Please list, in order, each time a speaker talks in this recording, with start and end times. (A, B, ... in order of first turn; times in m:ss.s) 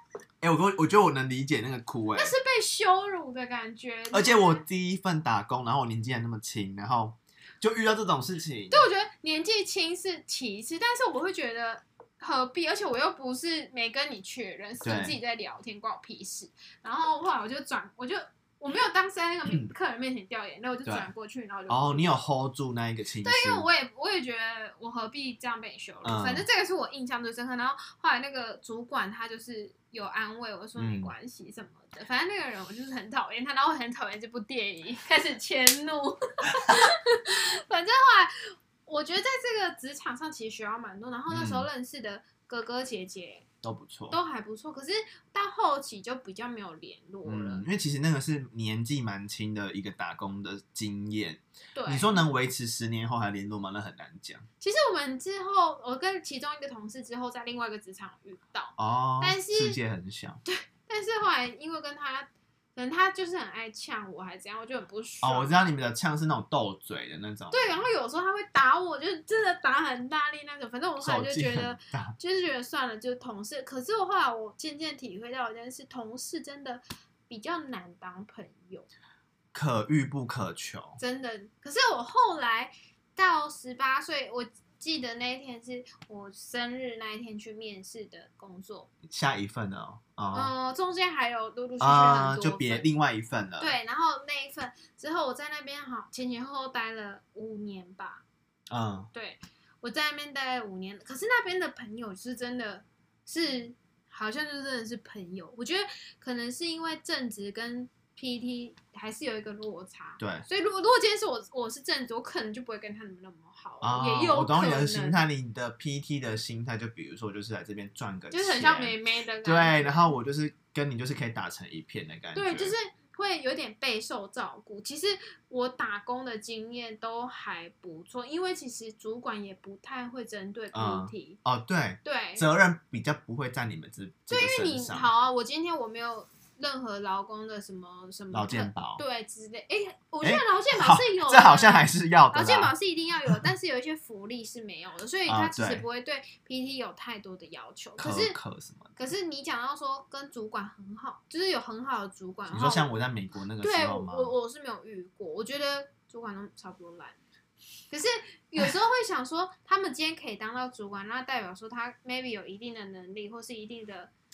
0:00.4-0:02.3 A
0:02.2-0:04.6 B
0:04.1-0:08.8 A
0:08.7-0:22.2 B
0:14.8-0:15.2 A
0:21.7-0:23.7 A
0:23.2-0:43.5 B
0:26.0-0:26.5 A
0:30.8-0:31.1 A
0:41.3-0:41.7 A
0:43.6-0:44.2 A
0:44.1-0:47.6 B
0:47.2-0:54.5 A
0:51.8-0:52.2 B
0:54.6-0:59.8 B
0:58.8-1:00.4 A
1:00.5-1:05.6 B
1:05.2-1:07.8 A
1:07.5-1:18.9 B
1:11.0-1:12.2 A
1:19.5-1:21.0 A
1:21.0-1:28.9 B
1:29.1-1:30.5 A
1:30.3-1:32.9 B
1:31.8-1:33.8 A
1:33.6-1:38.2 B
1:38.7-1:39.1 A
1:39.1-1:55.2 B
1:50.2-1:50.5 A
1:53.8-2:02.7 A
1:58.3-2:00.1 B
2:02.3-2:11.4 B
2:10.7-2:15.1 A
2:12.0-2:12.5 B
2:14.3-2:28.4 B
2:18.3-2:19.0 A
2:20.2-2:22.7 A
2:25.3-2:25.8 A
2:28.0-2:28.9 A
2:29.0-2:32.9 B
2:32.5-2:34.3 A
2:33.6-2:37.2 B
2:37.9-2:44.1 B